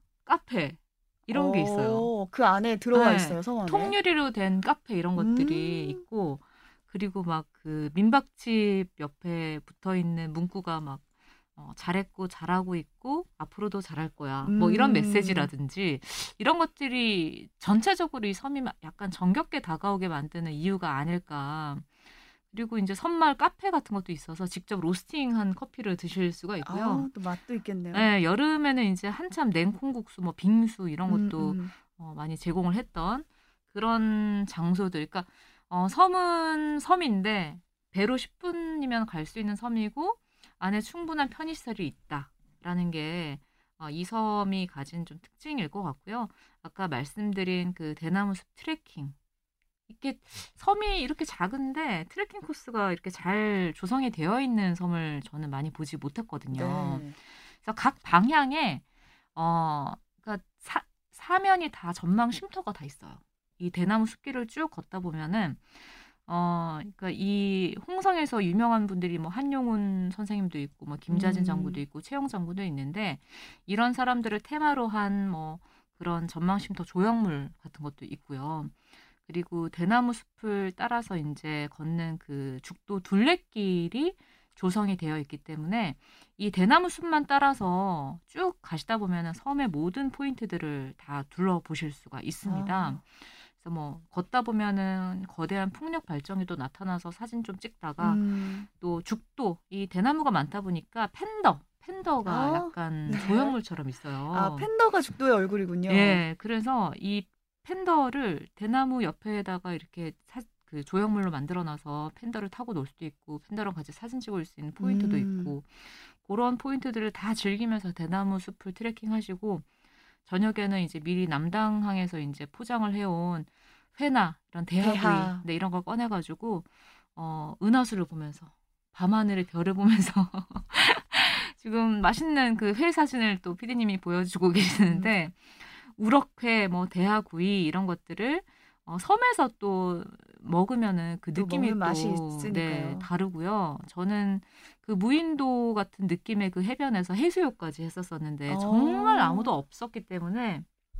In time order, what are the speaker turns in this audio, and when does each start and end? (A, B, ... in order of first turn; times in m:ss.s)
0:00.2-0:02.1 A
0:01.3-0:04.0 B
0:02.9-0:27.1 A
0:05.2-0:06.0 B
0:14.4-0:15.5 B
0:26.6-0:28.1 B
0:27.9-0:49.1 A
0:31.1-0:31.7 B
0:49.9-0:58.8 A
0:56.5-0:57.2 B
0:59.3-1:44.7 A
1:11.1-1:11.8 B
1:32.4-1:33.0 B
1:38.0-1:38.7 B
1:42.2-1:43.6 B
1:44.3-1:46.2 B
1:45.9-1:59.6 A
1:54.8-1:55.5 B
2:00.2-2:30.6 A
2:04.8-2:05.4 B
2:14.8-2:15.1 B
2:21.3-2:23.1 B
2:28.5-2:29.5 B